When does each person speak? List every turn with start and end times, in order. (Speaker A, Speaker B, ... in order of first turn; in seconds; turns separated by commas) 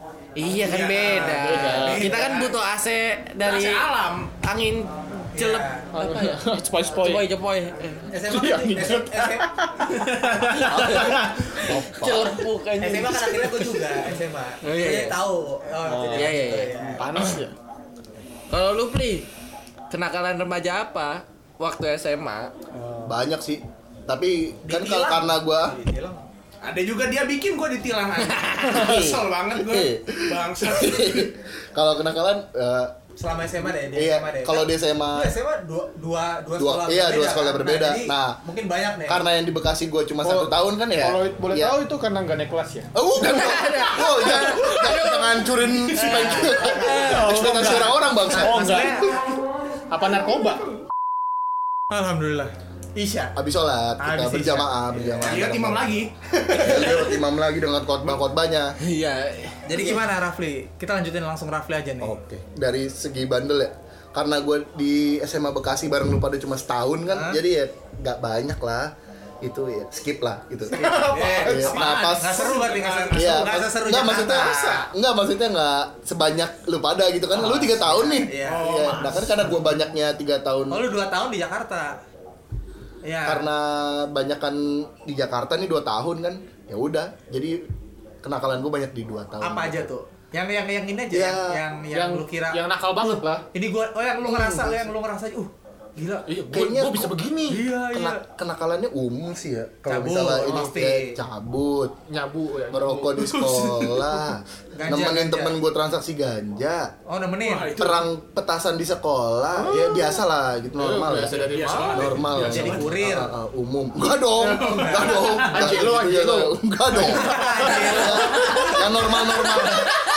Speaker A: 0.3-6.4, Speaker B: 0.4-2.5, Speaker C: 1.1-2.2, Speaker D: 3.4-4.3, Speaker B: 5.3-5.9, Speaker C: 5.9-7.3, Speaker A: 6.9-8.1, Speaker B: 8.1-9.5, Speaker C: 8.2-9.9, Speaker D: 9.9-11.4, Speaker A: 10.0-13.7, Speaker E: 10.7-12.4, Speaker B: 12.8-17.1, Speaker A: 14.6-15.2, Speaker C: 15.8-17.6, Speaker A: 16.1-17.4, Speaker A: 18.5-19.3, Speaker A: 19.9-22.5, Speaker C: 22.7-23.1, Speaker E: 23.1-25.7, Speaker B: 24.7-26.3, Speaker D: 26.6-31.3, Speaker E: 28.7-32.9, Speaker C: 28.8-29.1, Speaker B: 33.2-39.2, Speaker E: 33.8-35.3, Speaker E: 36.6-38.4, Speaker E: 39.1-41.8, Speaker C: 40.2-42.9, Speaker E: 42.9-49.2, Speaker A: 43.2-47.4, Speaker B: 46.0-49.2, Speaker C: 47.0-49.1, Speaker C: 49.9-50.6, Speaker B: 51.9-53.3, Speaker E: 53.3-58.8, Speaker B: 54.0-55.4, Speaker D: 55.0-57.2, Speaker A: 58.8-59.9, Speaker B: 59.6-62.2, Speaker E: 62.0-72.6, Speaker B: 67.1-67.4, Speaker B: 70.7-74.9, Speaker D: 70.8-73.7, Speaker C: 70.8-71.1, Speaker E: 73.1-80.9, Speaker B: 77.3-78.7, Speaker D: 78.4-79.6, Speaker B: 80.7-81.9, Speaker B: 83.0-83.5, Speaker E: 83.2-87.6, Speaker E: 88.2-89.9, Speaker B: 89.4-92.6, Speaker E: 91.1-91.6, Speaker C: 91.9-93.4, Speaker B: 93.5-96.3, Speaker E: 94.2-94.9, Speaker C: 96.3-97.7, Speaker E: 96.5-97.3, Speaker B: 97.5-98.2, Speaker E: 97.8-101.9, Speaker B: 99.8-101.2, Speaker C: 102.1-103.2, Speaker E: 102.7-106.9, Speaker D: 103.2-104.3, Speaker B: 104.8-105.6, Speaker B: 107.1-107.8, Speaker D: 107.4-108.1, Speaker E: 107.8-120.0, Speaker C: 109.6-110.2, Speaker C: 110.8-112.8, Speaker D: 111.3-113.0, Speaker B: 112.5-113.3, Speaker D: 114.3-115.8, Speaker B: 114.6-115.3, Speaker C: 115.5-116.5, Speaker B: 117.0-119.0, Speaker C: 117.0-117.9, Speaker D: 117.3-119.8